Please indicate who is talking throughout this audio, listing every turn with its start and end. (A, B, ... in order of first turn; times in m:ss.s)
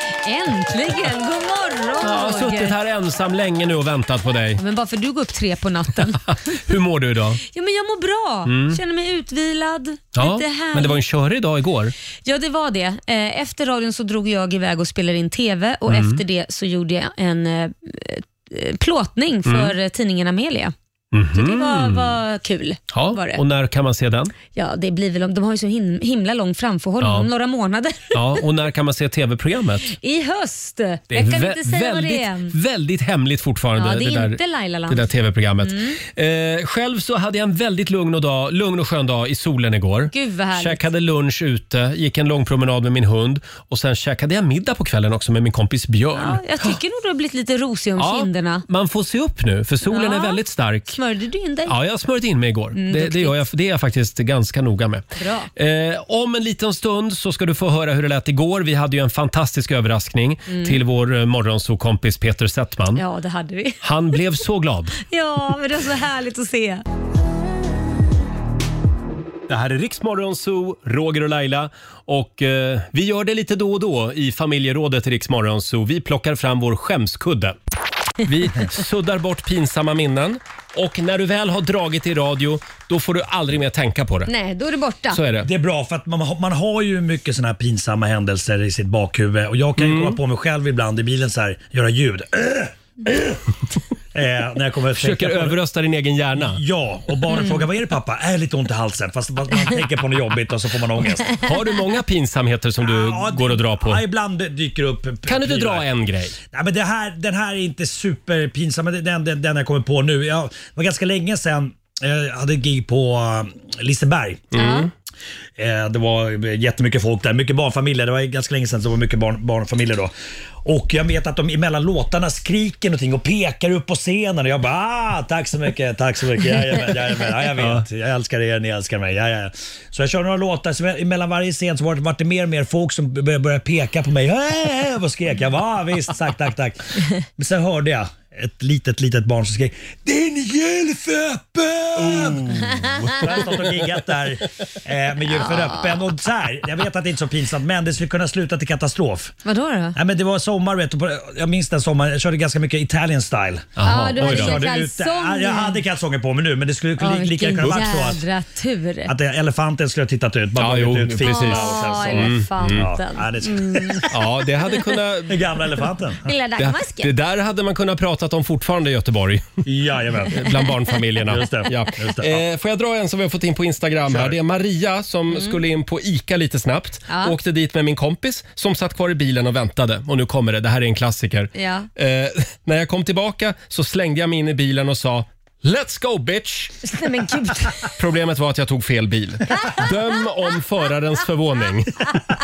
0:00.2-0:02.8 A
0:02.0-0:04.6 B
0:04.6-0:06.2 A
0:06.3-0:07.4 B
0:07.4-0:11.0 A
0:08.5-0:08.8 B
0:10.2-0:11.9 B
0:12.2-0:20.7 A
0:15.9-0:16.2 B
0:19.5-0:19.7 B
0:21.1-0:22.2 B
0:21.4-0:23.4 A
0:22.9-0:24.3 B
0:24.5-0:28.4 A
0:27.0-0:27.3 B
0:28.1-0:29.9 B
0:29.8-0:32.6 A
0:31.1-0:46.7 B
0:33.8-0:35.1 A
0:35.6-0:36.0 A
0:40.1-0:40.9 A
0:46.2-0:48.6 A
0:48.0-0:51.0 B
0:49.8-0:51.8 A
0:51.7-0:55.0 B
0:52.8-0:53.4 A
0:55.2-0:55.5 A
0:55.6-1:03.0 B
1:00.5-1:00.8 A
1:03.0-1:03.8 A
1:03.8-1:05.0 B
1:05.1-1:06.8 A
1:09.5-1:17.6 B
1:18.2-1:24.3 B
1:24.3-1:25.2 A
1:25.1-1:25.5 B
1:25.4-1:33.4 C
1:29.8-1:30.2 B
1:34.1-1:35.6 C
1:35.0-1:36.6 B
1:36.4-1:41.4 C
1:41.4-1:44.0 B
1:42.8-1:45.9 C
1:45.3-1:46.4 B
1:46.5-1:54.5 C
1:54.5-1:54.9 B
1:54.6-1:54.9 A
1:55.6-2:00.1 C
2:00.6-2:22.5 C
2:07.6-2:07.8 B
2:22.0-2:23.8 B
2:23.1-2:29.4 C
2:25.5-2:25.8 A
2:29.4-2:30.0 A
2:30.0-2:38.2 C
2:33.8-2:34.6 B
2:33.8-2:35.8 A
2:37.0-2:39.1 A
2:39.1-2:44.2 C
2:40.6-2:42.9 B
2:41.2-2:44.1 A
2:44.1-2:45.4 B
2:45.3-2:46.3 C
2:46.2-2:47.1 A
2:46.6-2:49.6 B
2:49.6-2:50.5 C
2:50.3-3:06.8 B
2:51.3-2:52.4 C
2:54.1-2:54.4 C
2:55.3-2:55.6 A
2:57.1-2:57.4 A
3:01.6-3:01.9 A
3:06.8-3:07.9 A
3:07.9-3:12.1 B
3:09.5-3:09.8 A